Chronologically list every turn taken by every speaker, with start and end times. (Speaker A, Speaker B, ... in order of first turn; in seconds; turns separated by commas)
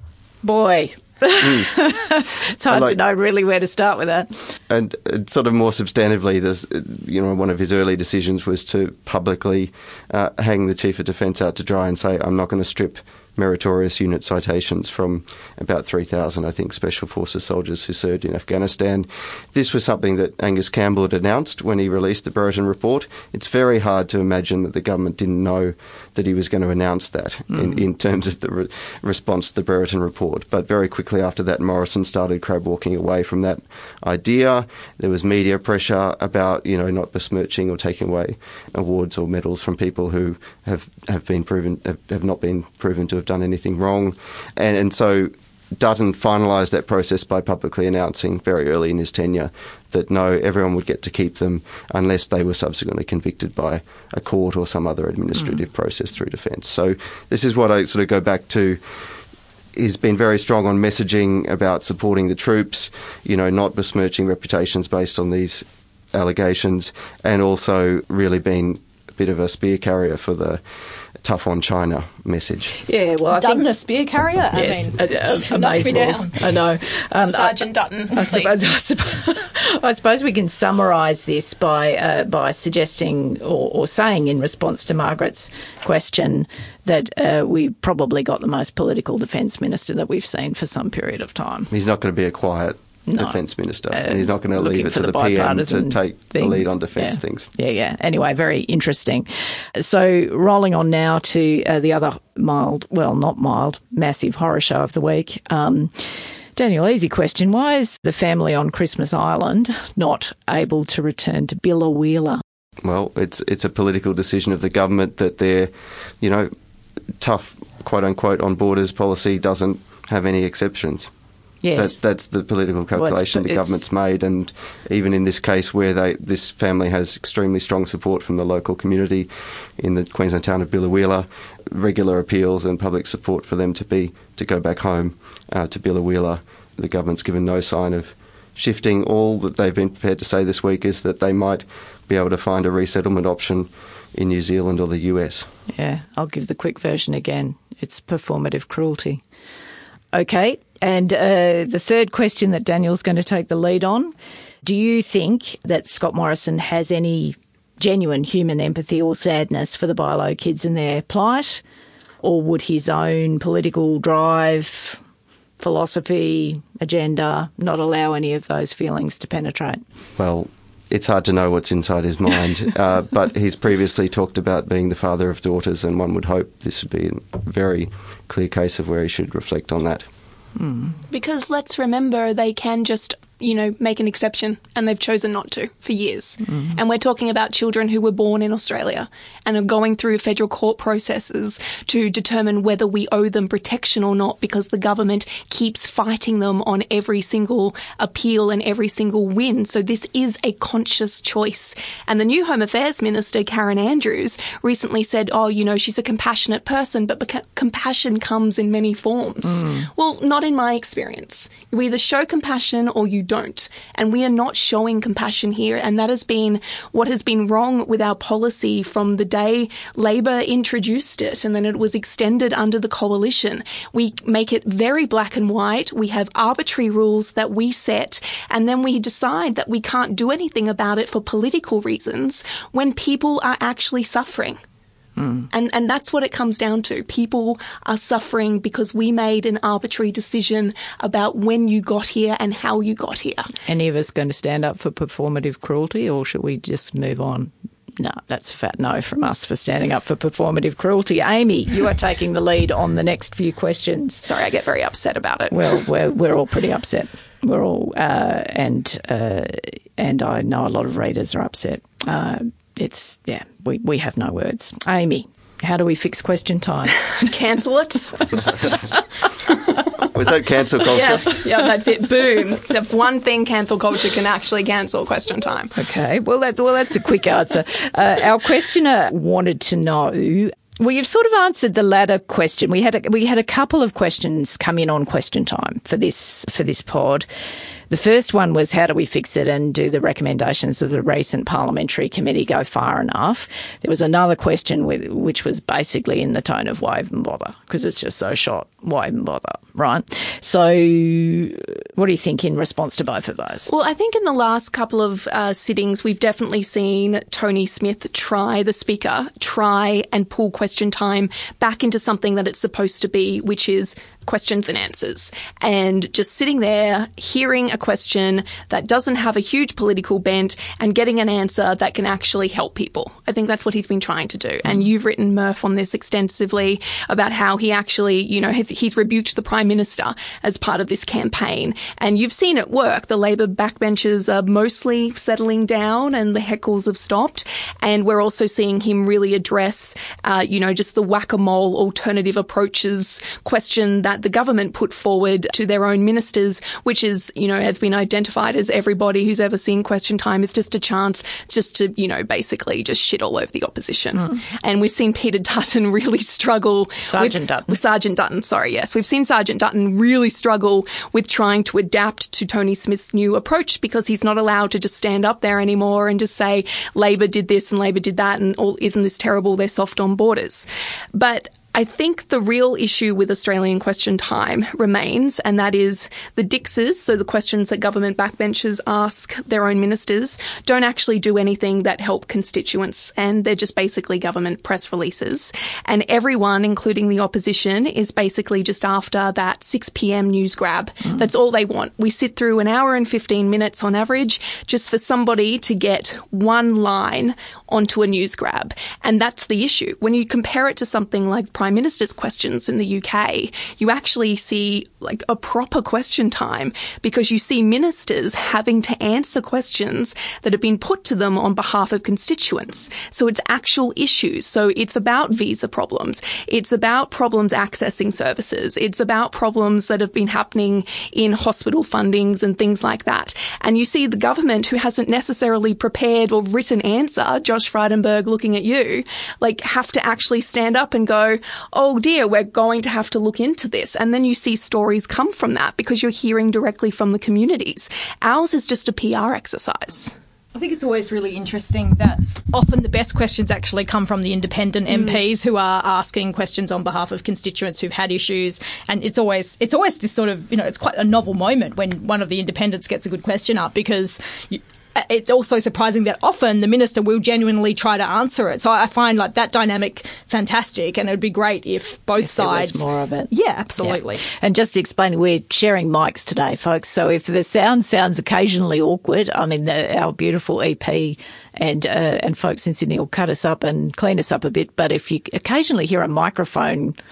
Speaker A: 0.4-4.5, Speaker B: 1.4-1.7, Speaker B: 2.7-3.0, Speaker B: 4.7-58.8, Speaker A: 27.5-27.8, Speaker B: 59.7-70.6, Speaker B: 71.2-72.8, Speaker A: 72.8-73.7, Speaker C: 73.3-76.3, Speaker A: 74.5-91.7, Speaker D: 77.2-78.6, Speaker B: 91.7-97.5, Speaker A: 93.1-93.4, Speaker A: 93.9-112.4, Speaker B: 112.8-116.5, Speaker B: 117.2-121.1, Speaker A: 121.6-122.0, Speaker B: 121.7-145.5, Speaker A: 122.9-123.8, Speaker A: 145.7-149.2, Speaker A: 150.1-161.6, Speaker A: 162.2-165.0, Speaker A: 165.6-169.8, Speaker B: 170.2-180.1, Speaker A: 180.6-180.9, Speaker D: 181.1-234.6, Speaker A: 209.5-209.8, Speaker A: 235.2-235.5, Speaker D: 235.5-243.5, Speaker A: 243.6-254.2, Speaker D: 254.2-255.8, Speaker A: 255.5-267.0, Speaker D: 267.0-269.8, Speaker B: 270.1-271.4, Speaker D: 270.9-275.7, Speaker A: 275.7-287.3, Speaker A: 287.9-303.7, Speaker D: 303.6-440.1, Speaker A: 357.1-357.8, Speaker C: 440.5-464.2, Speaker D: 444.9-445.2, Speaker A: 462.2-477.0